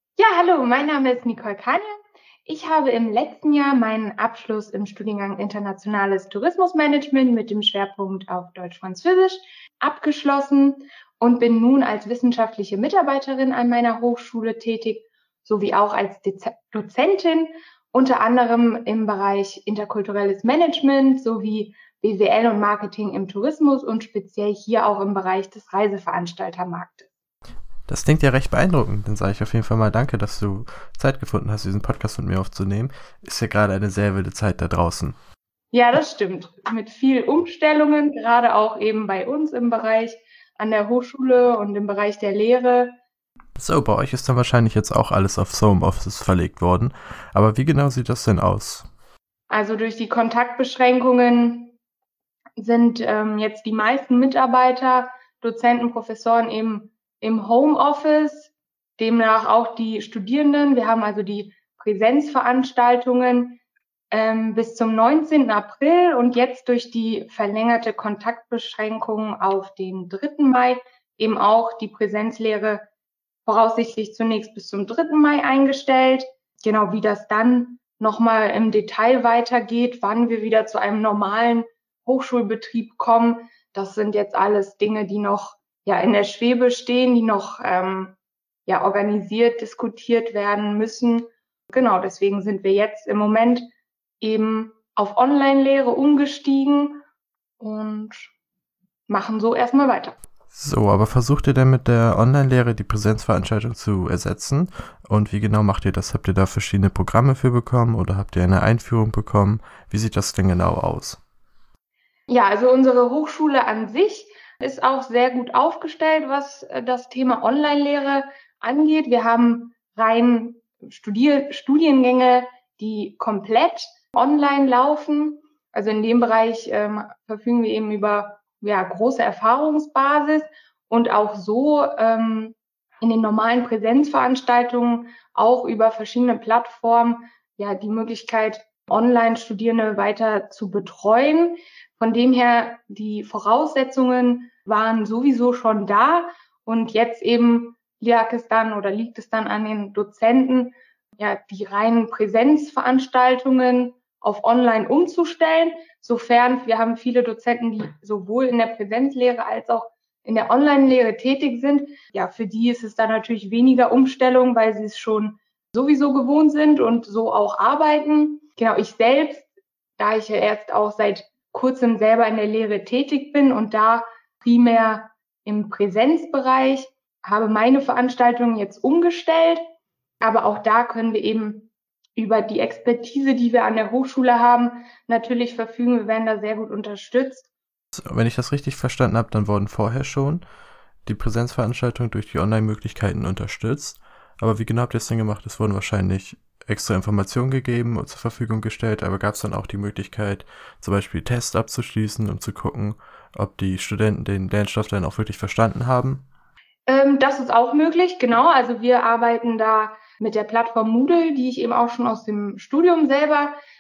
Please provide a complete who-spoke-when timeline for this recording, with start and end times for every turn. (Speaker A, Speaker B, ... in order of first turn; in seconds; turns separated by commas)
Speaker A: 0.2-27.1, Speaker B: 27.9-35.1, Speaker A: 35.7-42.9, Speaker B: 43.6-48.9, Speaker A: 49.5-51.8, Speaker A: 52.6-63.6, Speaker A: 64.1-72.9, Speaker A: 73.5-93.7, Speaker A: 94.2-97.0, Speaker A: 97.6-98.3, Speaker A: 99.1-100.2, Speaker B: 100.5-111.2, Speaker A: 112.3-179.6, Speaker A: 180.2-187.5, Speaker B: 188.0-190.4, Speaker B: 191.1-206.2, Speaker A: 206.9-213.6